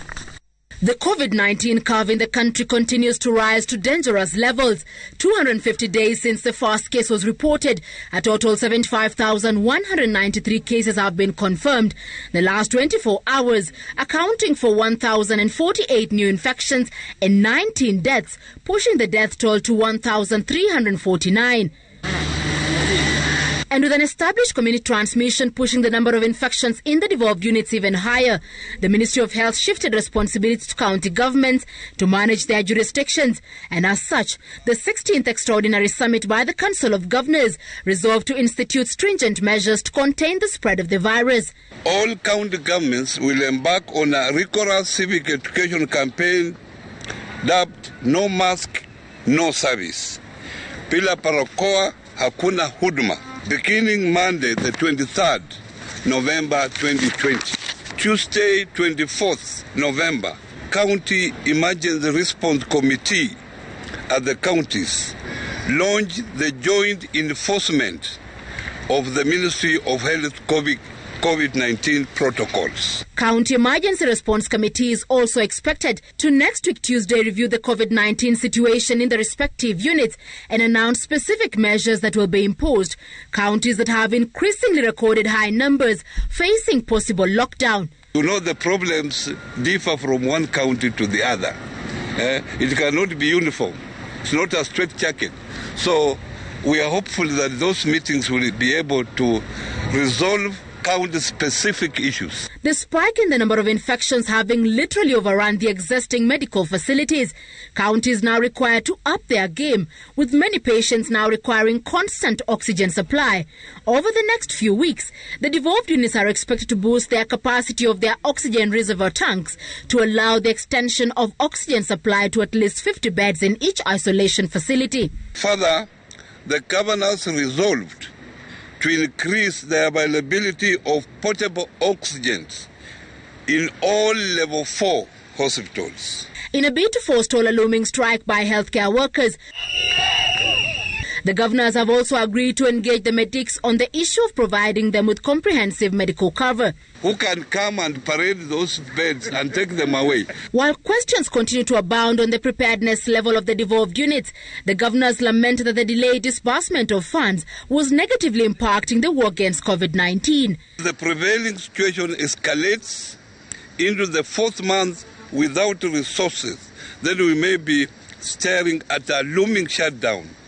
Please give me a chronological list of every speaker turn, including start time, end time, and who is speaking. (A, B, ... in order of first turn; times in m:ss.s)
0:00.8-0:21.7 A
0:23.7-0:41.5 A
0:41.8-0:46.6 B
0:47.4-0:50.2 B
0:50.9-1:03.3 B
1:04.1-1:05.1 B
1:05.6-1:08.2 B
1:08.9-1:13.0 B
1:13.2-1:27.9 A
1:28.1-1:31.6 B
1:32.2-1:42.4 B
1:42.6-2:05.1 A
2:05.3-2:05.9 B
2:06.4-2:08.1 B
2:08.8-2:12.7 B
2:13.5-2:16.3 B
2:16.5-2:19.4 A
2:21.2-2:26.7 A
2:27.0-2:30.3 B
2:30.5-2:40.6 A
2:40.8-2:43.2 B
2:43.8-2:50.3 B